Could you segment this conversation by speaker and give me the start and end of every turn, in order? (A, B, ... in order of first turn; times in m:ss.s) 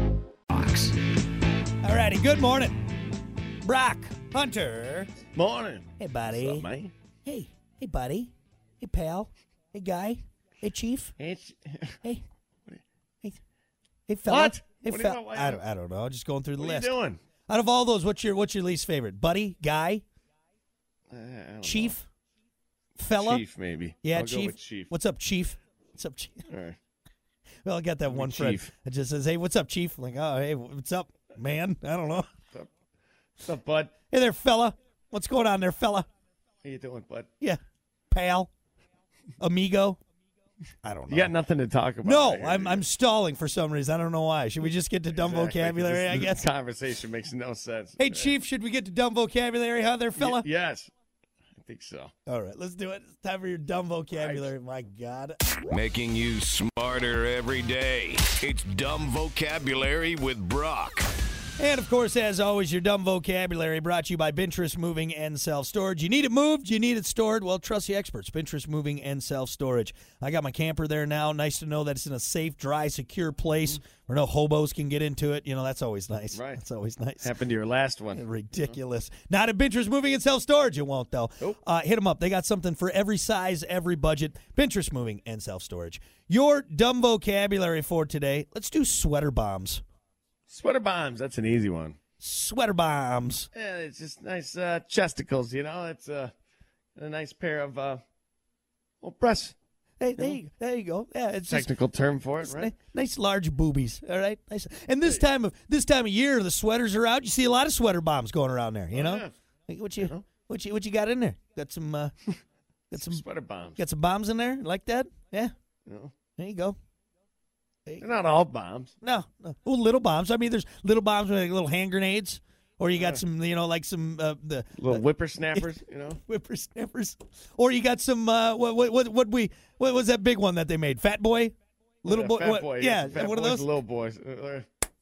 0:01.8-0:02.8 A
0:03.6-0:05.1 A
0:05.3-0:06.9 B
0:06.0-0:06.7 A
0:07.2-0:11.1 A
0:11.2-0:12.0 B
0:14.1-0:16.9 A
0:14.3-0:15.6 B
0:16.6-0:17.2 B
0:17.5-0:20.0 A
0:21.1-0:22.0 B
0:21.6-0:22.0 A
0:23.0-0:23.4 A
0:23.1-0:24.9 B
0:24.0-0:26.5 A
0:26.5-0:26.8 B
0:27.6-0:32.3 A
0:28.1-0:28.7 B
0:33.4-0:33.9 B
0:34.1-0:36.1 A
0:36.6-0:37.3 B
0:38.1-0:38.5 A
0:39.4-0:40.0 A
0:40.8-0:41.3 A
0:41.1-0:42.8 B
0:42.0-0:46.4 A
0:45.1-0:48.3 B
0:48.0-0:50.4 A
0:50.2-0:50.9 B
0:51.6-0:52.1 B
0:52.2-0:55.6 A
0:54.1-0:54.5 B
0:55.7-1:01.1 C
1:01.6-1:17.3 A
1:16.3-1:16.6 B
1:17.2-1:18.7 B
1:18.1-1:29.8 A
1:30.5-1:32.0 B
1:32.2-1:33.5 A
1:33.5-1:36.3 B
1:37.0-1:38.0 B
1:39.0-1:39.5 B
1:40.0-1:41.7 A
1:41.5-1:42.7 B
1:42.4-1:52.1 A
1:48.9-1:49.3 B
1:50.0-1:50.2 B
1:52.9-1:53.2 A
1:52.9-1:53.8 B
1:53.8-1:55.5 A
1:55.8-1:56.1 B
1:56.4-1:56.8 A
1:58.0-1:58.9 B
1:59.0-2:05.6 A
2:03.0-2:03.2 B
2:04.8-2:06.2 B
2:06.2-2:13.7 A
2:12.0-2:14.6 B